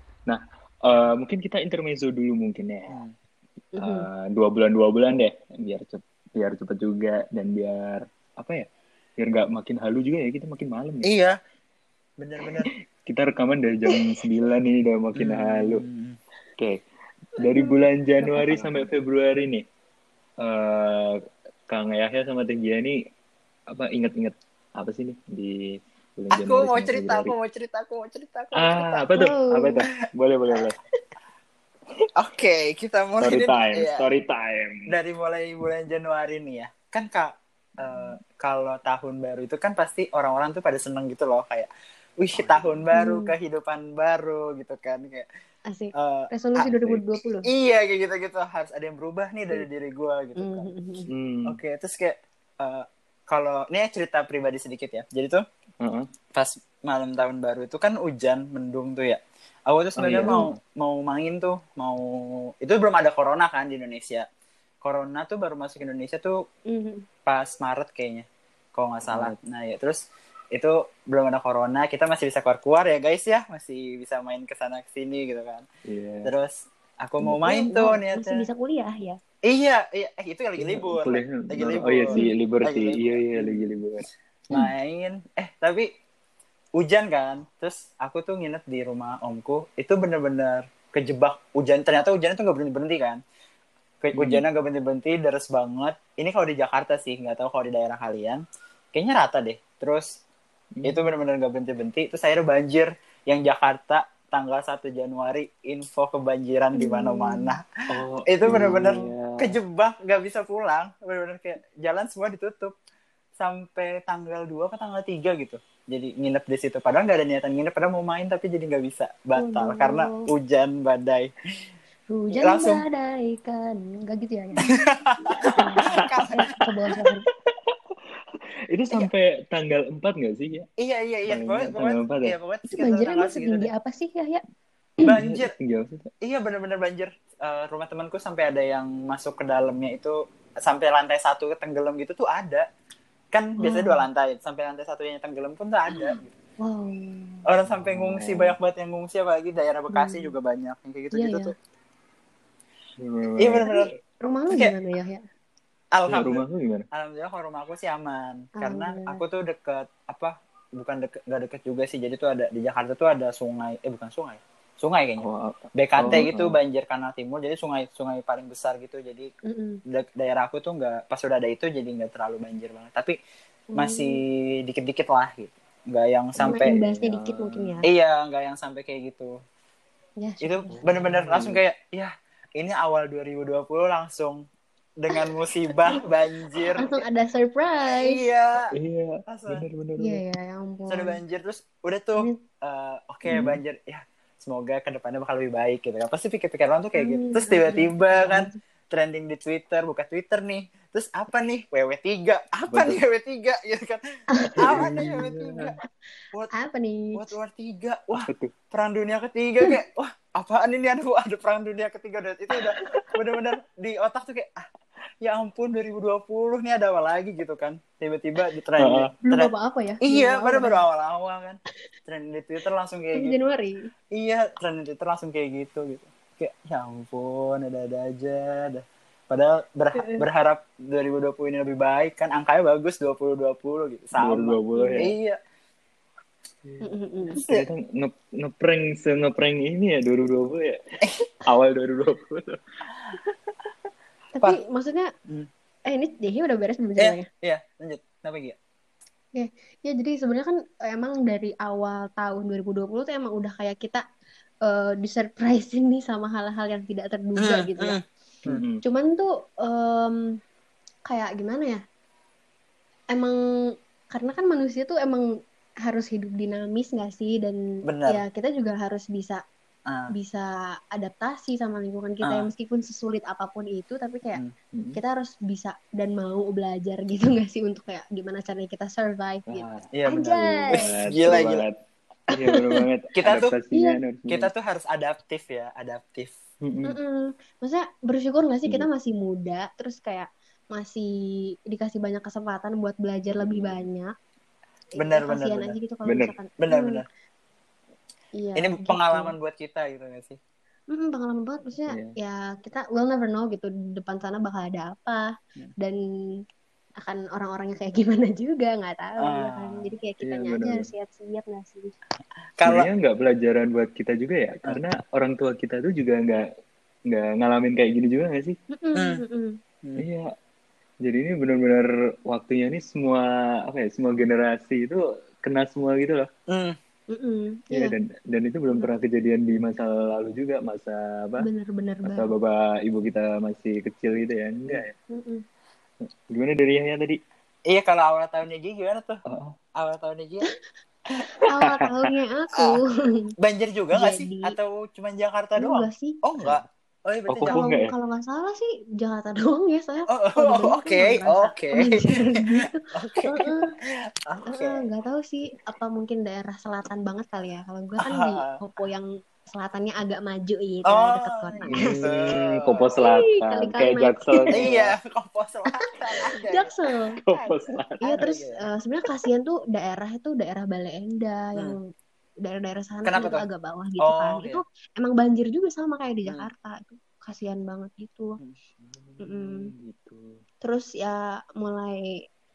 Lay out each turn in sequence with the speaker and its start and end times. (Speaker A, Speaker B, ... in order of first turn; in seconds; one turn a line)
Speaker A: 0.2-3.0
Speaker B: 3.7-4.1
Speaker A: 3.8-8.7
Speaker A: 9.2-11.1
Speaker C: 11.0-11.4
Speaker C: 12.2-12.7
Speaker A: 12.4-15.8
Speaker C: 15.1-16.2
Speaker A: 17.4-19.6
Speaker B: 17.4-18.9
Speaker A: 20.4-23.0
Speaker A: 23.7-27.3
Speaker C: 26.3-29.1
Speaker A: 28.5-30.8
Speaker B: 29.1-29.8
Speaker C: 32.1-34.1
Speaker A: 33.2-34.9
Speaker C: 34.9-45.3
Speaker B: 42.9-43.3
Speaker B: 45.7-47.5
Speaker C: 45.9-46.8
Speaker C: 47.4-50.7
Speaker B: 50.4-51.1
Speaker A: 51.1-51.6
Speaker C: 51.5-55.4
Speaker A: 55.8-56.1
Speaker C: 56.3-64.3
Speaker A: 60.0-60.5
Speaker C: 64.8-66.4
Speaker B: 66.7-67.0
Speaker C: 67.2-70.0
Speaker A: 69.1-69.4
Speaker C: 70.5-75.6
Speaker A: 75.8-76.3
Speaker C: 76.2-78.4
Speaker B: 77.2-79.2
Speaker C: 79.4-83.6
Speaker A: 80.6-84.0
Speaker C: 84.5-85.9
Speaker C: 86.8-93.2
Speaker C: 94.0-100.2
Speaker A: 94.1-94.4
Speaker A: 100.7-101.1
Speaker C: 100.8-107.6
Speaker B: 106.7-107.5
Speaker A: 107.9-109.6
Speaker C: 108.2-112.7
Speaker C: 113.4-121.3
Speaker B: 119.3-120.3
Speaker B: 122.1-127.2
Speaker C: 122.4-122.8
Speaker C: 124.6-126.6
Speaker A: 125.6-128.0
Speaker A: 128.7-130.7
Speaker C: 130.8-133.7
Speaker A: 131.3-132.3
Speaker B: 132.7-134.4
Speaker C: 135.0-135.5
Speaker A: 135.2-136.1
Speaker C: 136.2-142.7
Speaker C: 143.3-146.3
Speaker B: 143.6-144.1
Speaker B: 145.9-147.4
Speaker C: 147.4-151.5
Speaker A: 147.7-148.6
Speaker B: 149.9-150.3
Speaker B: 151.1-151.5
Speaker A: 153.0-153.7
Speaker C: 153.4-153.9
Speaker B: 153.7-155.2
Speaker C: 155.9-169.3
Speaker A: 156.1-156.8
Speaker B: 158.6-159.2
Speaker A: 165.2-166.6
Speaker B: 169.4-169.8
Speaker C: 169.9-173.2
Speaker B: 173.7-174.2
Speaker C: 173.7-176.8
Speaker A: 176.4-177.8
Speaker B: 176.4-177.9
Speaker C: 177.8-179.3
Speaker B: 180.2-180.7
Speaker C: 180.4-184.4
Speaker A: 180.7-181.6
Speaker C: 185.0-187.0
Speaker B: 186.8-188.2
Speaker C: 187.8-188.7
Speaker A: 188.7-190.2
Speaker C: 189.3-189.6
Speaker B: 190.0-191.2
Speaker C: 190.9-204.0
Speaker A: 193.2-193.6
Speaker B: 196.9-198.6
Speaker A: 202.7-203.0
Speaker B: 204.3-205.4
Speaker A: 204.6-205.7
Speaker C: 204.6-205.8
Speaker B: 206.5-207.3
Speaker C: 207.1-214.7
Speaker A: 208.1-208.5
Speaker C: 215.2-219.5
Speaker A: 218.8-219.1
Speaker B: 219.2-220.8
Speaker C: 220.0-223.3
Speaker B: 223.1-223.9
Speaker C: 224.1-235.4
Speaker B: 229.9-230.2
Speaker A: 234.2-235.1
Speaker B: 234.7-235.1
Speaker A: 236.6-240.8
Speaker B: 236.8-237.4
Speaker C: 237.4-237.7
Speaker C: 241.0-241.3
Speaker A: 241.4-242.6
Speaker B: 244.3-245.1
Speaker B: 245.9-247.3
Speaker C: 247.0-248.6
Speaker B: 249.3-254.0
Speaker B: 254.6-258.0
Speaker C: 257.4-258.6
Speaker A: 258.4-258.8
Speaker B: 258.8-260.3
Speaker B: 261.1-261.8
Speaker B: 264.1-265.2
Speaker B: 265.8-269.4
Speaker C: 267.8-268.2
Speaker C: 269.9-270.1
Speaker B: 270.1-274.4
Speaker C: 272.2-272.5
Speaker A: 274.7-275.0
Speaker B: 274.9-280.9
Speaker A: 279.5-281.8
Speaker C: 279.9-281.6
Speaker B: 282.3-282.9
Speaker A: 282.3-284.5
Speaker C: 283.1-283.5
Speaker B: 283.7-284.0
Speaker C: 284.3-286.3
Speaker A: 286.6-287.0
Speaker B: 286.8-294.1
Speaker A: 293.4-293.8
Speaker C: 295.0-295.8
Speaker B: 295.0-297.0
Speaker A: 296.0-296.3
Speaker C: 296.6-297.0
Speaker B: 298.4-299.3
Speaker C: 298.5-300.4
Speaker B: 300.9-306.0
Speaker A: 301.9-302.1
Speaker B: 307.0-311.9
Speaker C: 309.2-309.9
Speaker A: 310.2-310.9
Speaker C: 312.6-312.9
Speaker A: 312.6-316.5
Speaker A: 317.1-318.6
Speaker B: 318.7-319.6
Speaker C: 318.9-319.2
Speaker A: 320.0-320.3
Speaker A: 321.0-326.3
Speaker C: 326.5-326.8
Speaker B: 327.1-327.9
Speaker A: 327.7-331.5
Speaker B: 331.4-332.3
Speaker A: 332.0-334.9
Speaker B: 335.1-335.4
Speaker A: 336.1-337.2
Speaker C: 337.6-339.2
Speaker A: 339.3-339.6
Speaker C: 339.8-340.5
Speaker B: 341.4-343.3
Speaker A: 341.6-342.1
Speaker C: 342.5-342.8
Speaker C: 343.4-347.6
Speaker B: 343.9-344.6
Speaker B: 345.6-346.2
Speaker A: 347.3-347.9
Speaker B: 347.4-353.7
Speaker C: 350.1-354.8
Speaker B: 354.4-362.0
Speaker C: 358.0-358.6
Speaker C: 360.9-362.9
Speaker A: 361.6-364.9
Speaker B: 363.0-364.8
Speaker C: 364.5-368.6
Speaker B: 365.7-367.2
Speaker A: 367.2-368.3
Speaker B: 368.0-371.9
Speaker B: 372.4-378.4
Speaker C: 373.0-373.4
Speaker C: 374.0-374.6
Speaker A: 378.8-380.4
Speaker B: 379.2-379.7
Speaker B: 380.6-382.2